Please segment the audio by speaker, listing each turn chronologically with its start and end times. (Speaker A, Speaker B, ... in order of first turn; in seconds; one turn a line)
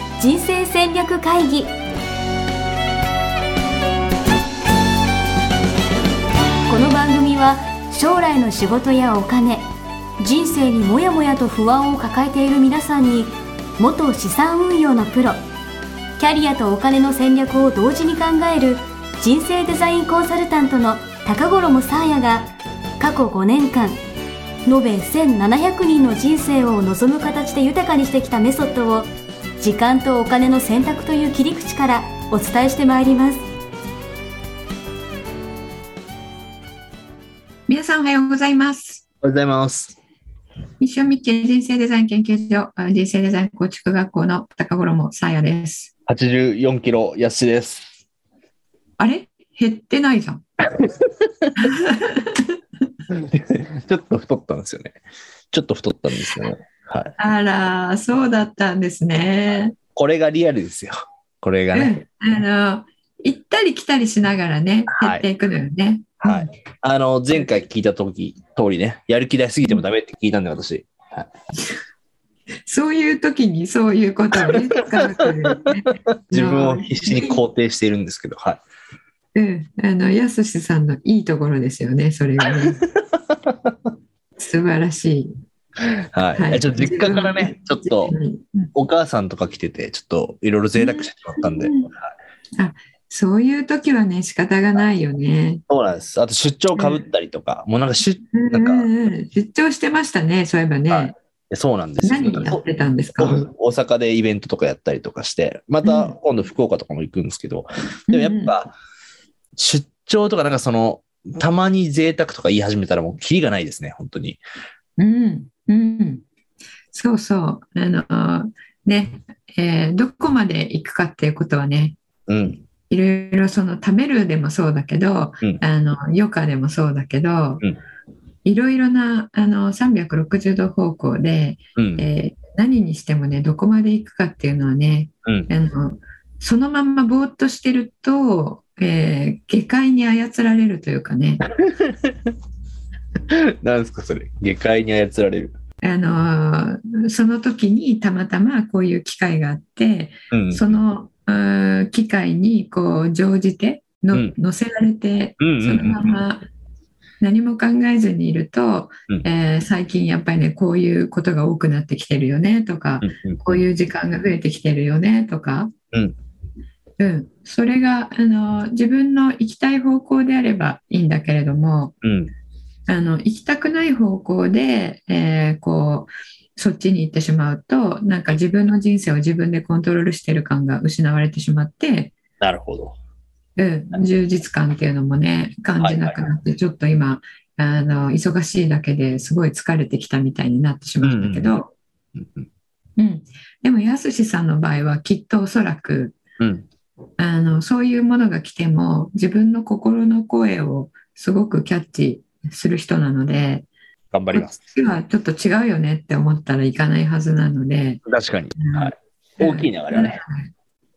Speaker A: 0.2-1.7
Speaker A: 6.7-9.7
Speaker A: 10.2-15.4
Speaker A: 16.2-24.0
Speaker A: 24.6-29.1
Speaker A: 29.6-33.4
Speaker B: 37.7-39.0
Speaker C: 39.2-40.0
Speaker B: 40.8-45.9
Speaker C: 46.1-47.9
Speaker B: 49.0-50.4
Speaker B: 51.5-52.5
Speaker C: 53.1-55.0
Speaker C: 55.5-57.1
Speaker B: 57.2-59.7
Speaker C: 59.9-61.9
Speaker B: 61.7-66.5
Speaker C: 64.9-65.2
Speaker C: 66.2-71.3
Speaker B: 72.7-77.4
Speaker C: 74.3-75.5
Speaker C: 76.3-78.6
Speaker B: 79.3-82.8
Speaker C: 82.4-83.8
Speaker B: 84.4-85.3
Speaker C: 85.8-88.2
Speaker B: 86.3-88.7
Speaker C: 88.7-92.0
Speaker B: 90.8-91.9
Speaker B: 92.6-95.6
Speaker C: 95.7-98.9
Speaker B: 96.7-97.0
Speaker B: 98.3-101.1
Speaker C: 100.9-102.6
Speaker B: 102.0-103.4
Speaker C: 103.2-108.7
Speaker B: 105.8-106.1
Speaker B: 108.1-108.5
Speaker C: 109.5-114.4
Speaker B: 115.0-116.2
Speaker B: 116.9-122.0
Speaker C: 122.3-122.6
Speaker B: 122.9-127.6
Speaker B: 128.4-141.4
Speaker C: 131.8-132.0
Speaker C: 141.4-142.3
Speaker C: 143.3-145.5
Speaker B: 145.8-156.4
Speaker C: 150.3-150.6
Speaker C: 155.4-156.1
Speaker B: 157.2-165.7
Speaker C: 163.0-163.4
Speaker B: 167.0-171.9
Speaker C: 172.0-172.3
Speaker B: 172.9-182.1
Speaker C: 182.4-182.9
Speaker B: 183.6-191.7
Speaker C: 185.8-186.2
Speaker C: 191.0-191.5
Speaker C: 192.1-192.5
Speaker B: 193.0-196.2
Speaker C: 196.4-196.6
Speaker B: 197.2-203.7
Speaker C: 204.1-204.6
Speaker B: 204.3-208.0
Speaker C: 208.1-210.2
Speaker B: 208.6-210.5